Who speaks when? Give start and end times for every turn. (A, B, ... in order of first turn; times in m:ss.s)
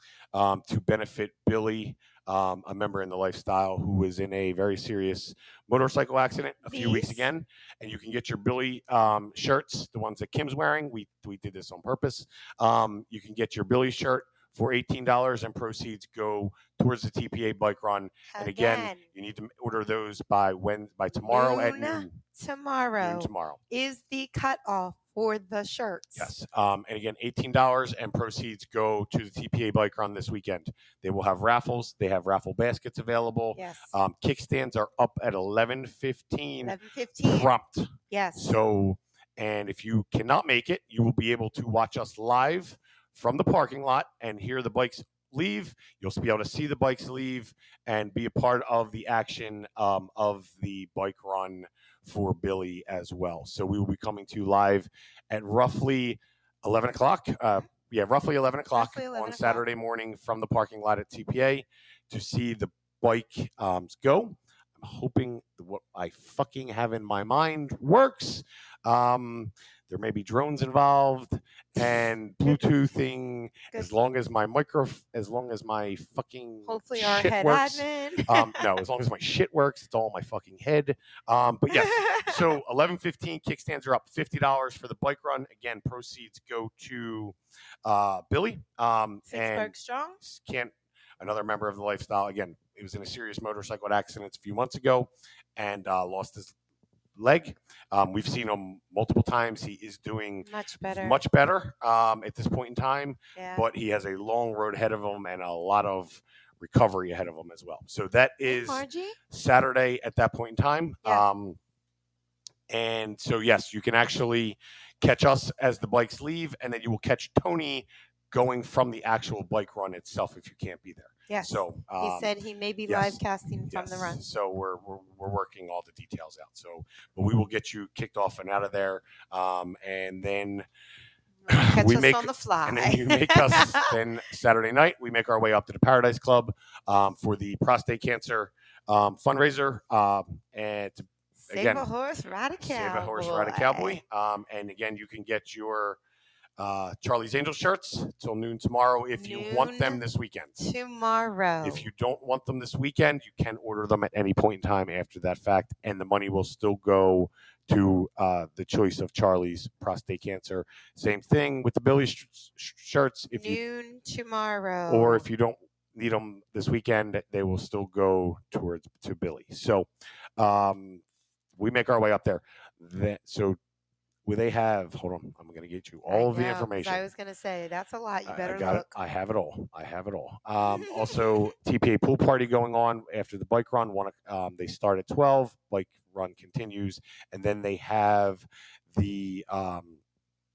0:00.3-0:22.2 A
0:06.6-0:07.3 B
0:18.3-0:19.1 B
0:21.3-0:26.3 B
0:23.0-0:23.6 A
0:26.2-1:36.5 A
0:33.6-0:33.9 B
0:36.7-0:37.5 B
0:38.1-0:38.4 B
0:58.8-0:59.6 B
1:16.7-1:18.7 B
1:21.7-1:22.4 B
1:29.3-1:30.2 B
1:37.2-1:51.6 A
1:40.4-1:41.2 B
1:43.4-1:43.6 B
1:48.5-1:49.2 B
1:52.7-2:02.3 A
2:01.3-2:04.2 B
2:02.9-2:10.7 A
2:11.4-2:14.0 B
2:11.5-2:21.9 A
2:21.5-2:24.0 B
2:22.6-2:26.0 A
2:26.6-2:30.6 A
2:29.2-2:30.0 B
2:30.6-2:31.9 B
2:31.6-2:43.6 A
2:43.3-2:45.3 B
2:44.9-2:51.0 A
2:51.6-2:53.6 A
2:54.2-2:57.1 A
2:56.1-2:58.9 B
2:58.3-3:10.0 A
3:00.7-3:01.2 B